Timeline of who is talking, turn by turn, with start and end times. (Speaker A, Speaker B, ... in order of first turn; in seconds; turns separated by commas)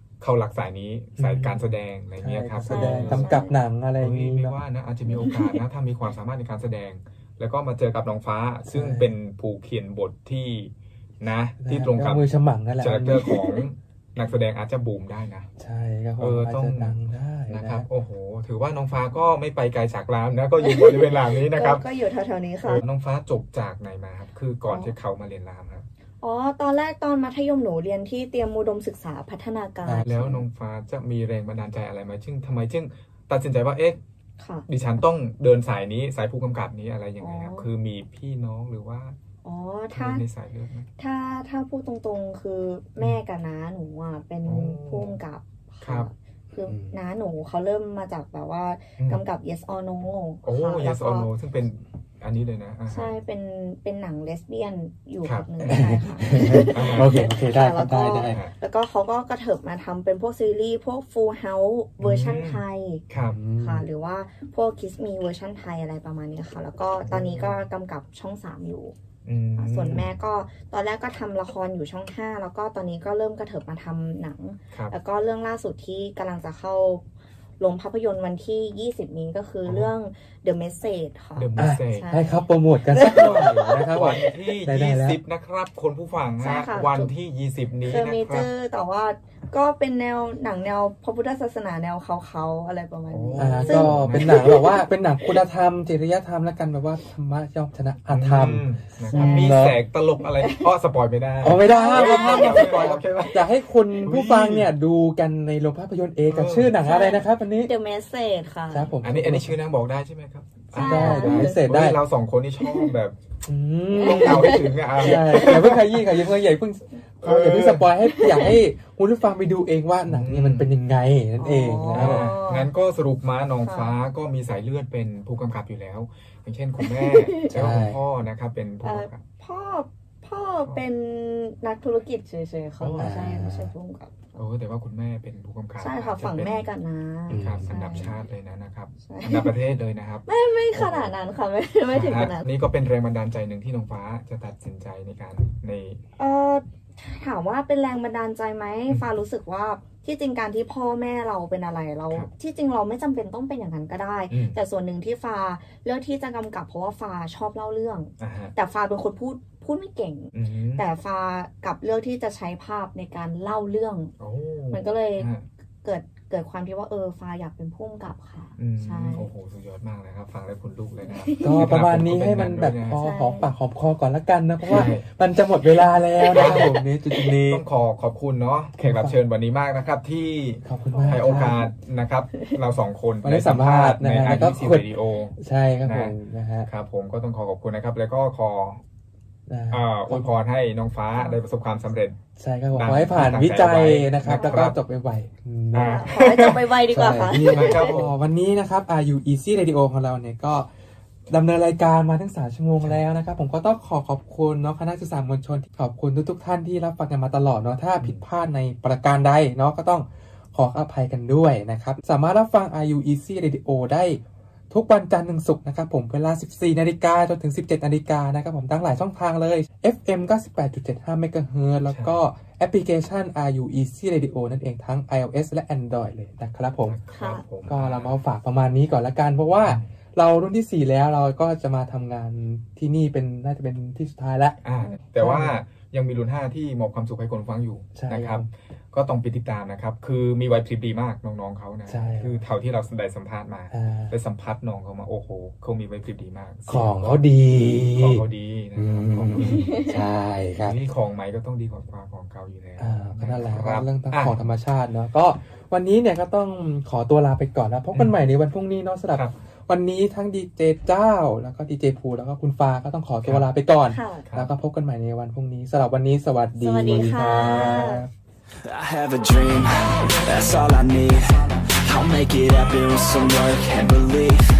Speaker A: 0.2-3.3, Speaker B: 1.2-1.6, Speaker B: 2.2-4.6, Speaker C: 2.7-3.6, Speaker A: 4.0-12.3, Speaker C: 5.1-5.6, Speaker B: 8.7-9.1, Speaker B: 11.6-13.4, Speaker A: 12.8-15.5, Speaker C: 13.2-13.6, Speaker B: 15.6-17.9, Speaker A: 16.2-21.9, Speaker C: 20.6-22.8, Speaker A: 22.6-25.9, Speaker C: 24.7-24.9, Speaker C: 26.2-30.4, Speaker A: 30.1-34.0, Speaker C: 34.4-34.7, Speaker A: 34.7-39.2, Speaker C: 37.2-37.7, Speaker C: 39.4-40.2, Speaker A: 39.9-40.9, Speaker C: 41.0-51.3, Speaker A: 44.5-45.2, Speaker A: 45.8-46.1, Speaker B: 46.7-47.0, Speaker A: 50.4-53.2, Speaker C: 52.9-63.0, Speaker A: 55.2-55.8, Speaker B: 55.6-58.4, Speaker A: 56.5-57.2, Speaker A: 58.2-58.5, Speaker A: 62.0-63.4, Speaker B: 63.3-63.9, Speaker C: 63.6-69.0, Speaker A: 67.1-67.7, Speaker A: 69.2-70.1, Speaker C: 69.6-77.0, Speaker C: 77.6-83.9, Speaker A: 79.6-79.9, Speaker A: 81.4-82.1, Speaker B: 81.6-85.2, Speaker A: 83.0-88.5, Speaker C: 86.4-87.1, Speaker C: 87.9-94.8, Speaker A: 93.1-94.5, Speaker B: 93.4-99.8, Speaker A: 98.1-103.4, Speaker C: 99.1-100.7, Speaker B: 101.4-107.7, Speaker C: 101.7-103.1, Speaker A: 104.0-104.7, Speaker A: 106.2-106.8, Speaker C: 106.8-108.9, Speaker B: 108.7-109.6, Speaker A: 109.0-113.2, Speaker C: 110.7-111.6, Speaker B: 110.8-112.0, Speaker C: 112.6-112.9, Speaker B: 113.5-122.3, Speaker C: 113.9-115.1, Speaker A: 114.0-116.2, Speaker A: 117.2-117.9, Speaker C: 118.0-118.5, Speaker A: 120.1-120.7, Speaker C: 121.4-122.7, Speaker A: 121.9-129.2, Speaker C: 123.6-124.0, Speaker C: 126.8-127.5, Speaker B: 127.5-128.0, Speaker C: 128.8-134.2, Speaker A: 132.8-133.2, Speaker B: 133.0-133.7, Speaker A: 134.3-136.7, Speaker C: 135.8-138.1, Speaker B: 137.3-138.1, Speaker A: 137.3-141.2, Speaker C: 139.0-139.6, Speaker C: 140.3-142.4, Speaker A: 141.9-146.0, Speaker C: 146.2-164.1, Speaker A: 154.3-154.6, Speaker A: 158.2-158.5, Speaker A: 160.3-160.9, Speaker A: 164.2-165.5, Speaker C: 164.7-165.3, Speaker C: 165.8-169.3, Speaker A: 168.6-173.0, Speaker C: 171.1-171.7, Speaker B: 171.4-177.7, Speaker C: 173.0-173.5, Speaker A: 174.7-175.1, Speaker C: 176.2-176.7, Speaker A: 176.3-188.8, Speaker B: 178.8-179.2, Speaker B: 180.7-181.6, Speaker C: 180.9-181.7, Speaker B: 183.2-186.7, Speaker B: 189.5-190.3, Speaker A: 189.7-192.2, Speaker C: 191.1-191.4, Speaker B: 192.4-196.2, Speaker A: 192.7-194.8, Speaker C: 194.3-194.7, Speaker A: 195.7-196.8, Speaker C: 195.8-198.0, Speaker B: 196.8-200.7, Speaker A: 197.5-198.1, Speaker B: 201.3-227.0, Speaker A: 221.9-222.2, Speaker A: 226.8-228.2, Speaker C: 227.1-227.4, Speaker B: 227.7-234.6, Speaker A: 229.6-229.9, Speaker A: 234.6-249.8, Speaker B: 235.2-235.6, Speaker B: 237.9-238.5, Speaker B: 241.9-242.4, Speaker B: 243.7-244.1, Speaker B: 246.7-248.2, Speaker B: 248.8-250.8, Speaker C: 249.4-250.0, Speaker A: 250.6-254.4, Speaker B: 252.8-268.1, Speaker A: 259.1-259.4, Speaker C: 263.9-264.3, Speaker A: 264.3-264.5, Speaker C: 266.6-268.0, Speaker D: 268.6-274.4